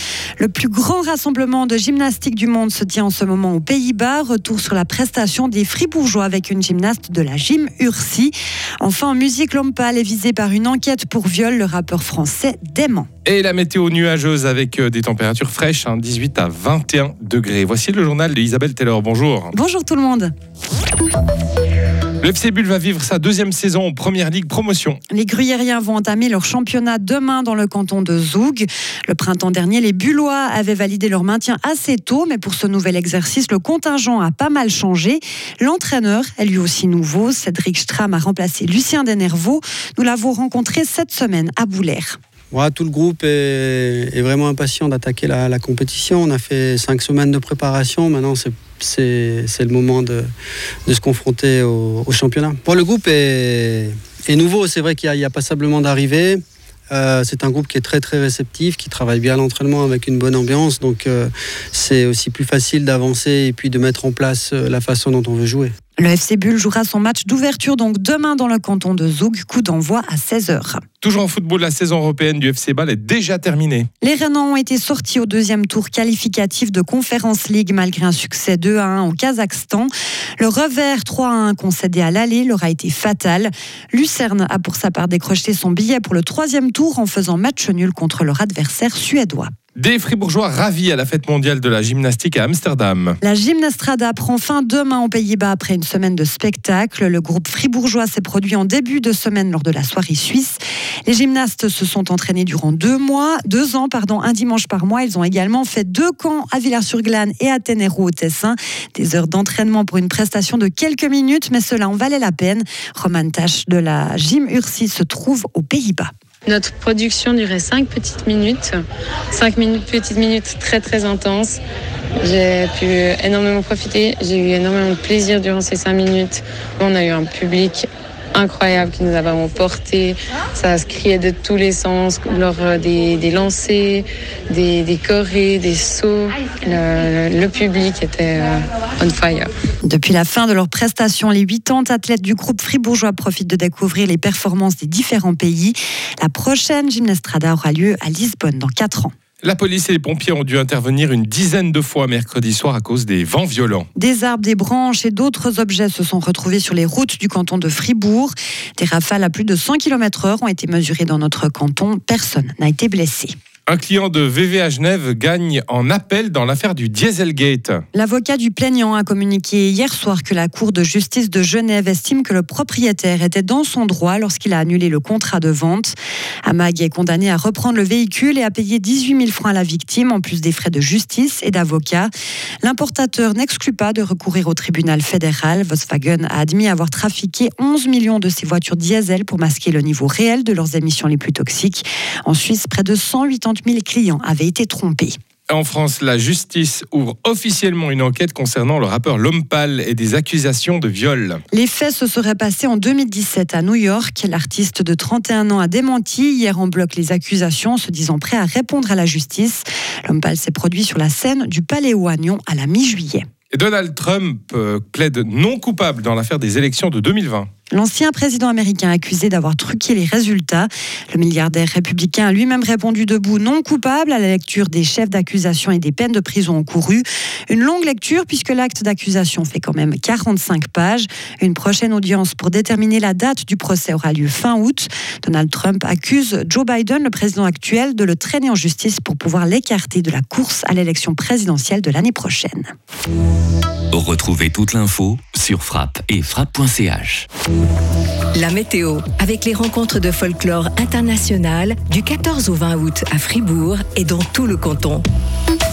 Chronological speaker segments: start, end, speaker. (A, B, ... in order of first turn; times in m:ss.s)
0:00.4-0:13.1 A
0:13.2-0:19.5 B
0:19.5-0:20.3 A
0:22.2-0:25.0 B
0:25.1-0:42.2 A
0:42.5-0:50.3 C
0:50.9-1:05.7 C
1:06.0-1:10.8 A
1:11.0-1:13.9 B
1:14.0-1:29.5 A
1:29.8-1:33.2 B
1:33.2-1:56.1 A
1:56.4-1:58.8 D
1:59.3-2:01.6 D
2:02.2-2:19.5 D
2:19.8-2:29.1 A
2:29.4-2:33.9 B
2:34.0-2:43.3 A
2:43.7-2:47.8 B
2:47.9-3:02.1 A
3:02.6-3:15.2 A
3:15.5-3:21.4 B
3:21.5-3:33.3 A
3:33.5-3:37.5 B
3:37.7-4:02.7 A
4:03.9-4:07.3 E
4:08.3-4:15.0 F